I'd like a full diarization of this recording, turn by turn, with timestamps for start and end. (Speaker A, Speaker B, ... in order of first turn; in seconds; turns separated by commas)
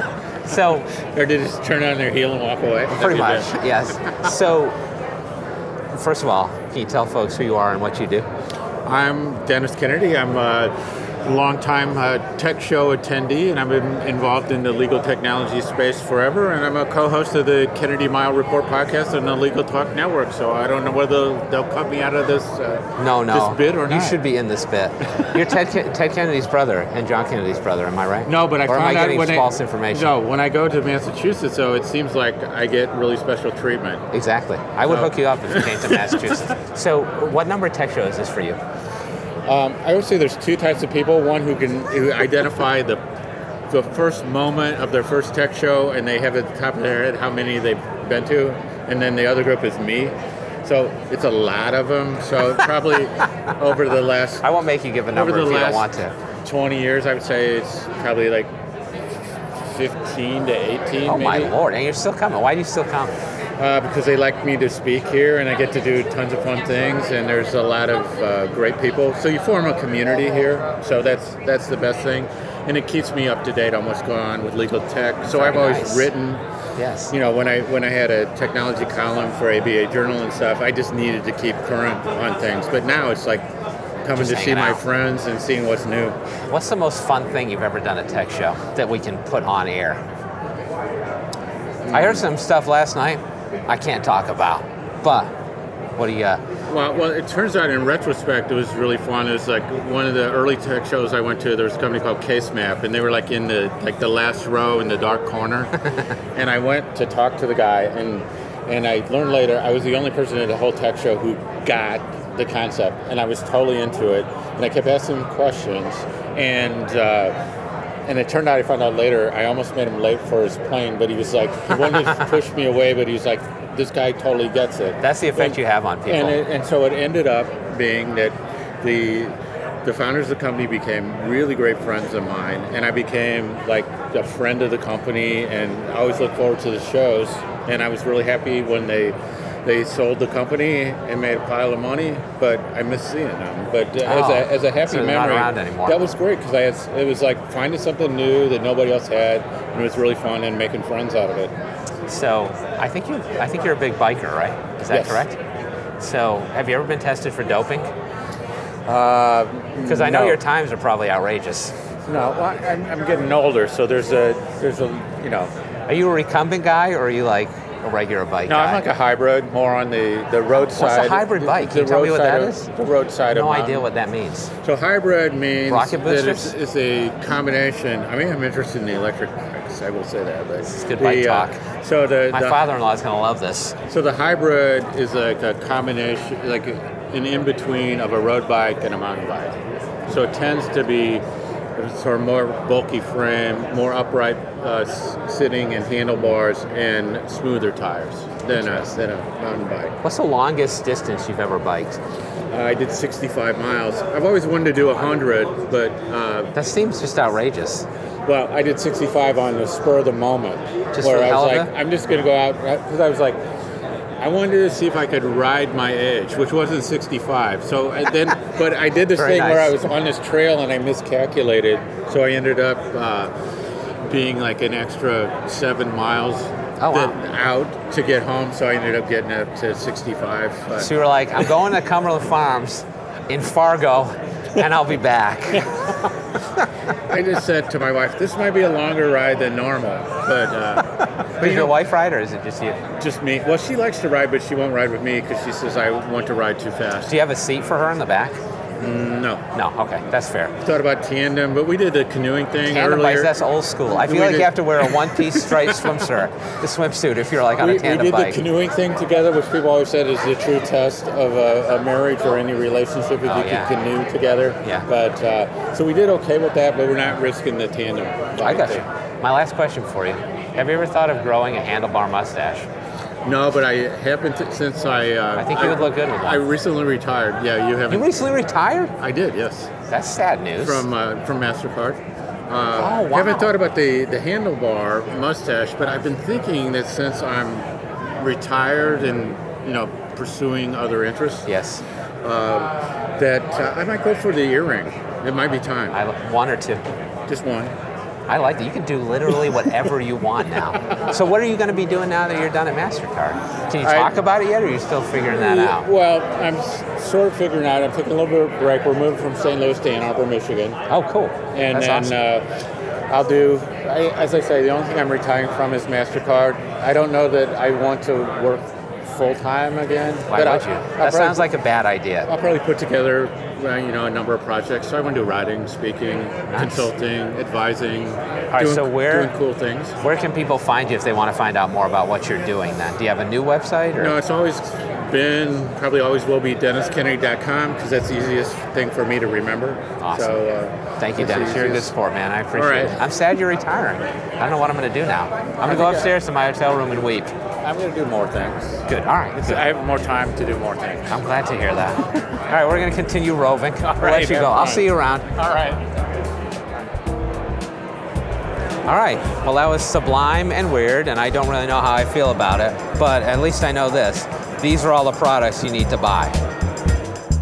Speaker A: 0.4-0.9, Speaker B: 0.9-3.5, Speaker A: 2.9-4.8, Speaker A: 5.9-8.3, Speaker B: 8.8-10.7, Speaker B: 11.2-24.2, Speaker A: 23.0-30.1, Speaker B: 28.2-34.0, Speaker A: 34.1-38.6, Speaker B: 34.9-36.3, Speaker B: 39.5-43.0, Speaker B: 43.7-54.4, Speaker A: 54.4-56.1, Speaker B: 55.1-55.9, Speaker B: 56.4-58.5, Speaker B: 59.6-61.5, Speaker A: 61.0-63.1, Speaker B: 63.6-76.4, Speaker A: 75.3-76.1, Speaker A: 76.8-77.1, Speaker B: 77.1-83.5, Speaker B: 84.0-86.2, Speaker A: 84.1-84.8, Speaker A: 86.5-90.0, Speaker B: 91.8-92.3, Speaker A: 91.9-95.3, Speaker A: 96.0-96.4, Speaker B: 96.7-105.7, Speaker B: 106.3-117.3, Speaker B: 118.0-151.5, Speaker A: 121.8-122.1, Speaker A: 125.0-126.4, Speaker A: 144.0-146.0, Speaker A: 152.1-155.4, Speaker B: 154.9-155.2, Speaker A: 156.0-157.9, Speaker B: 158.8-160.4, Speaker A: 159.8-161.8, Speaker B: 162.1-165.5, Speaker A: 165.9-168.9, Speaker B: 168.4-173.8, Speaker A: 170.7-172.7, Speaker A: 173.3-174.5, Speaker B: 174.6-182.6, Speaker A: 175.7-176.5, Speaker A: 180.6-181.6, Speaker A: 182.3-183.8, Speaker B: 183.9-191.2, Speaker B: 191.8-199.9, Speaker A: 198.5-198.9, Speaker A: 200.0-202.0, Speaker B: 202.5-206.5, Speaker A: 206.5-207.9, Speaker B: 208.2-213.4, Speaker A: 210.9-211.7, Speaker B: 214.2-223.3, Speaker A: 219.1-219.8, Speaker B: 224.1-230.9, Speaker A: 226.8-227.1, Speaker A: 230.8-235.9, Speaker B: 237.1-241.7, Speaker A: 241.4-242.8, Speaker B: 243.0-247.1, Speaker A: 247.1-248.4, Speaker B: 248.8-249.4, Speaker A: 249.5-250.6, Speaker B: 250.6-253.3, Speaker A: 252.6-258.4, Speaker B: 253.9-255.8, Speaker B: 257.6-268.8, Speaker A: 263.2-263.7, Speaker A: 268.4-272.7, Speaker B: 273.2-278.2, Speaker A: 275.4-276.4, Speaker A: 277.9-278.9, Speaker B: 279.0-279.7, Speaker A: 279.9-280.9, Speaker B: 280.6-291.5, Speaker A: 282.7-283.5, Speaker A: 291.4-291.8, Speaker B: 292.2-296.0, Speaker A: 295.9-296.8, Speaker B: 297.3-297.7, Speaker A: 298.3-305.9, Speaker B: 303.8-304.1, Speaker B: 305.2-310.8, Speaker A: 310.9-312.2, Speaker B: 311.5-312.5, Speaker B: 313.1-321.5, Speaker A: 320.3-322.3, Speaker B: 322.3-330.0, Speaker A: 326.5-326.9, Speaker A: 328.5-329.3, Speaker A: 330.0-334.2, Speaker B: 334.0-341.9, Speaker A: 340.0-340.4, Speaker A: 341.0-347.3, Speaker B: 342.5-343.0, Speaker B: 345.6-346.1, Speaker B: 347.6-348.8, Speaker A: 348.9-349.6, Speaker B: 349.4-351.1, Speaker A: 351.1-355.3, Speaker B: 353.9-355.8, Speaker A: 358.8-366.4